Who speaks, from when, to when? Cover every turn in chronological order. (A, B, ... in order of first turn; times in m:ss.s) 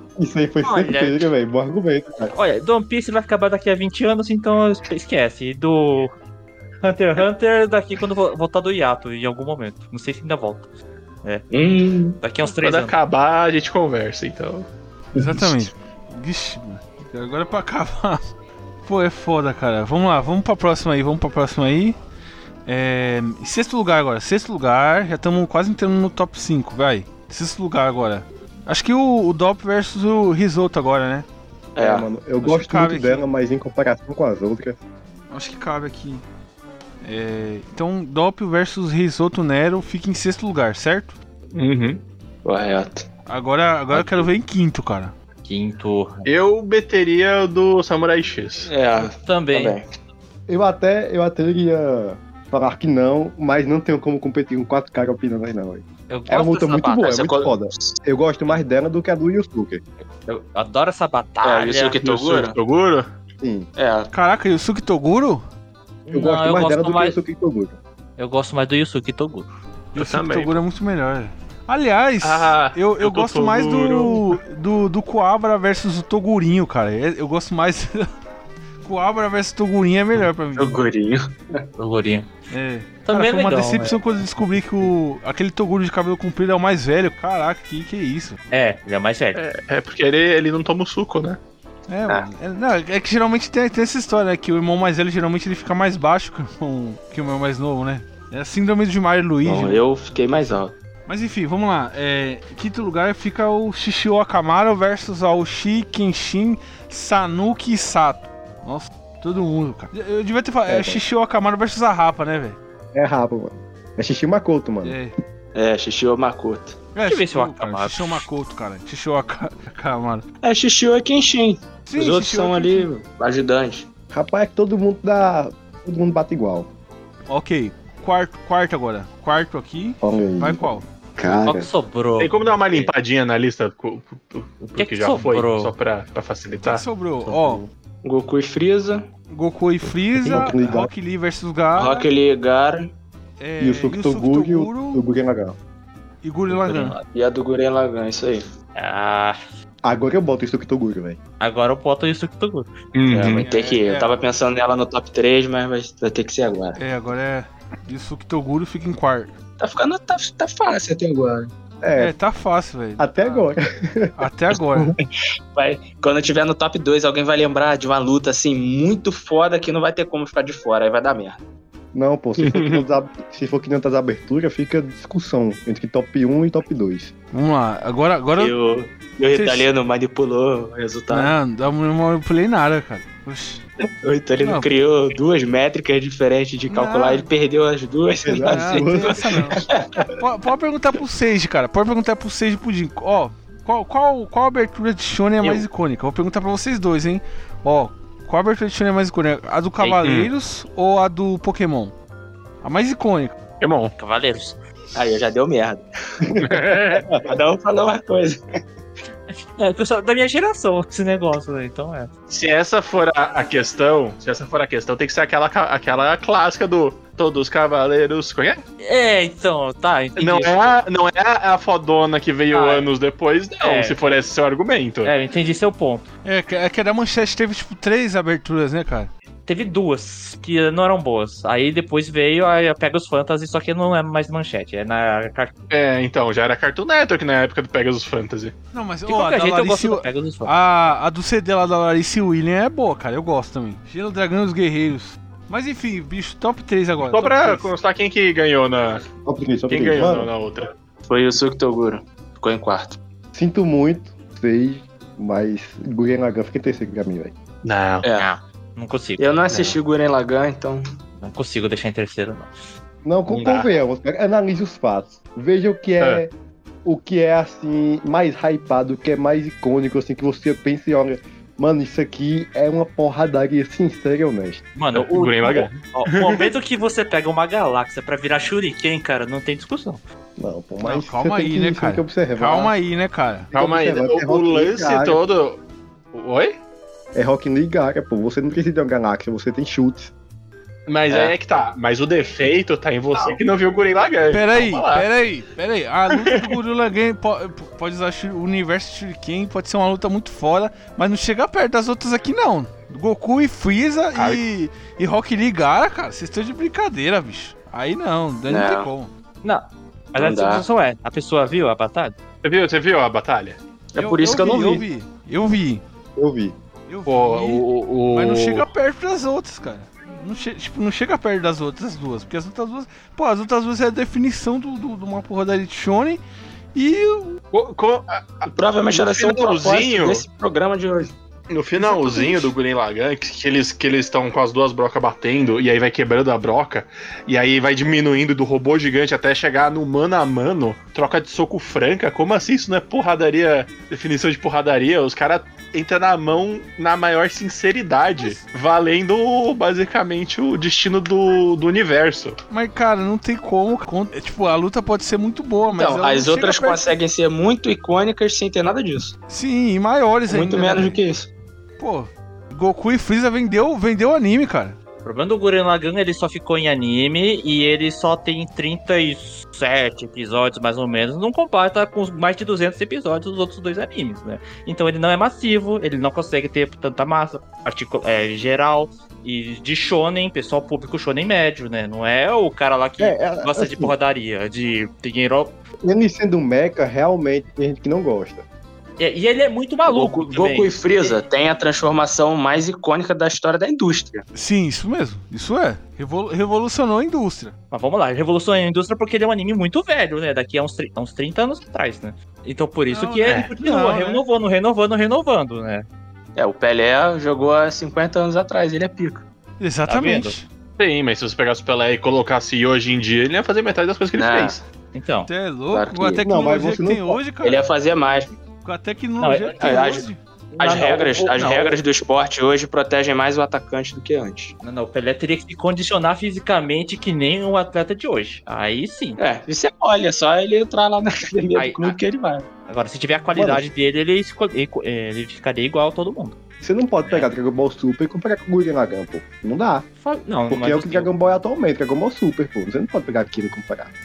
0:00.2-0:02.3 A
0:00.6-0:01.3 B
0:02.3-0:06.1 B
0:06.8-0:10.7 B
0:11.2-0:11.5 B
0:11.5-0:12.2 C
0:12.2-0:13.0 B
0:12.5-0:14.7 D
0:15.2-0:18.2 E
0:18.9-0:22.0 E
0:22.7-0:31.3 E
0:31.8-0:32.1 C
0:31.8-0:34.8 A
0:32.4-0:33.3 E
0:35.3-0:36.2 E
0:37.0-0:41.2 E
0:41.5-0:42.0 D
0:42.4-0:43.1 C
0:43.3-0:45.1 E
0:43.9-0:44.3 B
0:45.4-0:46.3 B
0:46.2-0:48.7 D
0:48.7-0:49.9 C
0:49.0-0:49.8 B
0:50.5-0:59.8 A
0:56.1-0:57.1 B
0:57.0-0:58.0 C
1:00.3-1:02.0 B
1:01.4-1:02.6 C
1:02.0-1:03.1 D
1:03.4-1:03.7 A
1:03.8-1:04.1 C
1:04.1-1:05.4 E
1:06.1-1:07.2 B
1:06.1-1:07.8 A
1:08.2-1:09.5 B
1:09.9-1:18.1 E
1:10.0-1:10.6 D
1:12.2-1:14.4 D
1:18.8-1:20.8 E
1:20.6-1:21.6 C
1:21.8-1:22.3 B
1:22.5-1:28.4 E
1:23.1-1:24.0 B
1:28.5-1:29.4 B
1:29.4-1:31.4 D
1:31.9-1:39.8 E
1:39.4-1:40.7 C
1:41.1-1:52.6 E
1:50.7-1:51.0 A
1:52.9-1:55.0 A
1:54.8-1:55.1 E
1:55.6-1:56.8 C
1:56.9-2:00.2 E
1:57.1-1:58.2 B
2:00.4-2:03.9 C
2:01.9-2:02.9 E
2:04.1-2:06.7 A
2:07.3-2:10.8 E
2:10.0-2:11.7 A
2:11.3-2:12.9 B
2:12.2-2:16.8 D
2:14.8-2:15.7 B
2:16.6-2:17.6 E
2:17.2-2:17.7 B
2:18.0-2:19.1 C
2:19.3-2:22.1 E
2:20.3-2:20.9 A
2:21.8-2:22.8 C
2:23.4-2:25.0 E
2:23.6-2:25.6 A
2:26.2-2:27.0 E
2:26.5-2:27.0 B
2:27.1-2:28.4 C
2:28.8-2:29.4 B
2:29.8-2:31.2 A
2:31.4-2:32.8 B
2:33.0-2:33.5 D
2:33.1-2:36.8 C
2:33.3-2:34.2 E
2:36.8-2:39.3 E
2:39.6-2:41.5 C
2:41.8-2:42.2 A
2:42.0-2:43.5 E
2:43.0-2:44.2 A
2:44.2-2:44.9 E
2:45.5-2:51.4 C
2:51.9-2:57.1 A
2:52.4-2:52.8 D
2:57.3-2:58.5 E
2:58.4-3:01.4 C
2:59.3-2:59.7 E
3:01.1-3:03.6 E
3:04.0-3:10.1 C
3:04.4-3:04.7 E
3:06.7-3:07.3 E
3:08.2-3:10.1 A
3:08.4-3:09.6 E
3:10.2-3:21.9 E
3:20.0-3:20.3 D
3:22.6-3:23.4 E
3:23.6-3:23.9 D
3:24.0-3:24.6 B
3:24.9-3:28.4 C
3:26.4-3:27.1 D
3:29.6-3:32.1 B
3:32.3-3:38.6 D
3:38.8-3:40.8 B
3:40.2-3:45.1 D
3:42.5-3:42.9 B
3:43.6-3:44.0 B
3:45.0-3:46.1 B
3:46.2-3:49.1 E
3:49.5-3:55.6 B
3:55.7-3:58.6 D
3:58.7-4:07.7 E
3:59.1-4:00.5 B
4:07.0-4:09.0 D
4:09.2-4:10.3 A
4:09.7-4:10.7 D
4:11.1-4:13.0 C
4:13.3-4:17.3 A
4:17.6-4:18.1 D
4:18.0-4:18.3 C
4:18.2-4:19.8 B
4:19.2-4:20.8 C
4:21.2-4:22.5 B
4:23.0-4:26.3 A
4:23.3-4:23.7 D
4:26.8-4:34.6 A
4:34.8-4:40.0 B
4:35.0-4:36.5 D
4:40.4-4:42.7 A
4:40.8-4:43.5 E
4:43.5-4:45.2 A
4:43.5-4:45.6 D
4:46.1-4:46.6 D
4:47.2-4:50.1 A
4:50.9-4:55.1 D
4:51.1-4:51.4 C
4:54.3-5:09.1 E
4:56.2-4:56.5 D
5:08.5-5:08.9 C
5:09.4-5:12.2 B
5:10.2-5:10.6 C
5:12.4-5:13.6 D
5:13.9-5:14.8 C
5:14.0-5:15.8 E
5:16.2-5:16.6 A
5:16.9-5:26.2 E
5:17.1-5:18.7 D
5:26.7-5:27.4 E
5:27.5-5:30.2 D
5:28.5-5:31.1 C
5:31.5-5:52.4 D
5:31.8-5:32.5 E
5:48.1-5:48.4 E
5:52.5-5:56.8 E
5:55.7-5:59.1 C
5:59.3-6:01.0 E
6:00.3-6:01.3 C
6:01.8-6:04.8 E
6:05.0-6:25.6 B
6:23.0-6:23.9 A
6:25.8-6:28.4 A
6:29.0-6:31.2 B
6:29.9-6:34.2 C
6:34.3-6:37.5 E
6:37.7-6:45.8 B
6:42.9-6:44.2 E
6:46.4-6:49.2 C
6:49.6-6:50.5 E
6:49.9-6:50.4 B
6:50.8-6:54.6 D
6:54.2-6:54.6 C
6:54.9-6:55.3 B
6:55.3-6:57.7 E
6:55.7-6:56.2 C
6:56.2-6:57.2 A
6:57.4-6:58.3 C
6:58.6-7:00.2 E
6:59.2-7:00.0 B
6:59.6-7:00.1 C
7:00.5-7:01.8 B
7:00.6-7:04.6 C
7:04.6-7:09.2 B
7:09.2-7:12.5 C
7:11.6-7:12.0 B
7:12.7-7:16.4 B
7:13.3-7:13.7 A
7:16.6-7:19.9 A
7:17.0-7:17.3 B
7:20.0-7:21.4 B
7:20.5-7:23.9 A